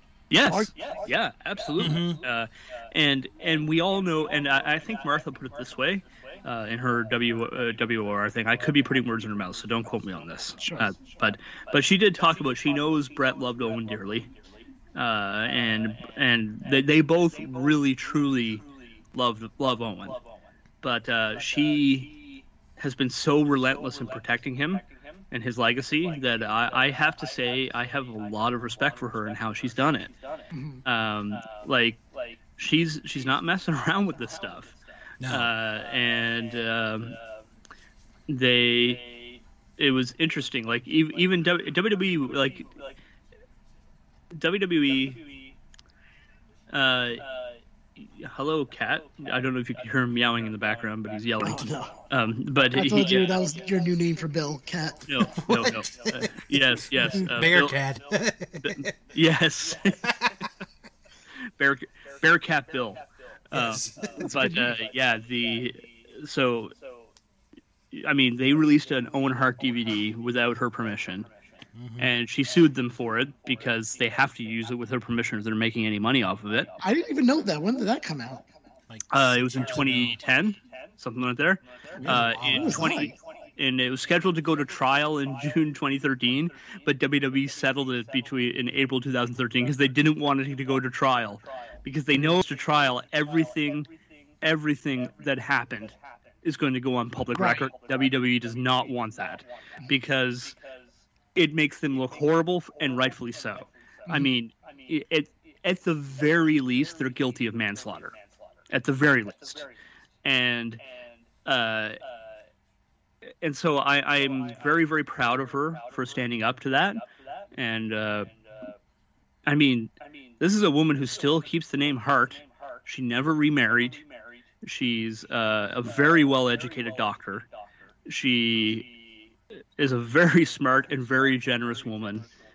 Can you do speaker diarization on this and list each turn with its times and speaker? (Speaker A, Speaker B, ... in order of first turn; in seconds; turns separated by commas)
Speaker A: 0.3-14.3, Speaker B: 0.5-0.7, Speaker C: 1.8-2.2, Speaker B: 10.6-10.9, Speaker A: 14.9-20.2, Speaker A: 20.8-22.1, Speaker A: 22.8-30.1, Speaker B: 30.5-30.8, Speaker A: 30.8-32.0, Speaker A: 32.6-34.8, Speaker C: 35.2-35.5, Speaker A: 35.3-37.2, Speaker A: 38.3-39.0, Speaker A: 39.8-42.7, Speaker A: 44.3-45.2, Speaker A: 46.7-47.2, Speaker A: 48.0-53.3, Speaker B: 51.4-51.9, Speaker B: 52.7-55.0, Speaker A: 55.1-57.8, Speaker C: 55.4-58.9, Speaker A: 58.6-60.0, Speaker C: 60.0-60.3, Speaker A: 61.5-63.0, Speaker A: 63.5-66.7, Speaker C: 63.5-64.6, Speaker B: 64.2-64.7, Speaker A: 67.9-71.3, Speaker C: 71.7-72.1, Speaker A: 72.0-76.7, Speaker B: 76.8-78.4, Speaker C: 78.9-80.2, Speaker A: 79.1-93.9, Speaker C: 82.0-82.9, Speaker B: 82.0-83.1, Speaker A: 94.4-100.5, Speaker B: 97.3-97.7, Speaker A: 101.3-108.1, Speaker A: 108.7-109.7, Speaker A: 110.2-110.8, Speaker A: 111.4-112.0, Speaker A: 113.4-117.0, Speaker A: 117.5-118.3, Speaker A: 119.5-124.0, Speaker A: 124.6-127.5, Speaker A: 128.1-128.9, Speaker A: 129.8-132.3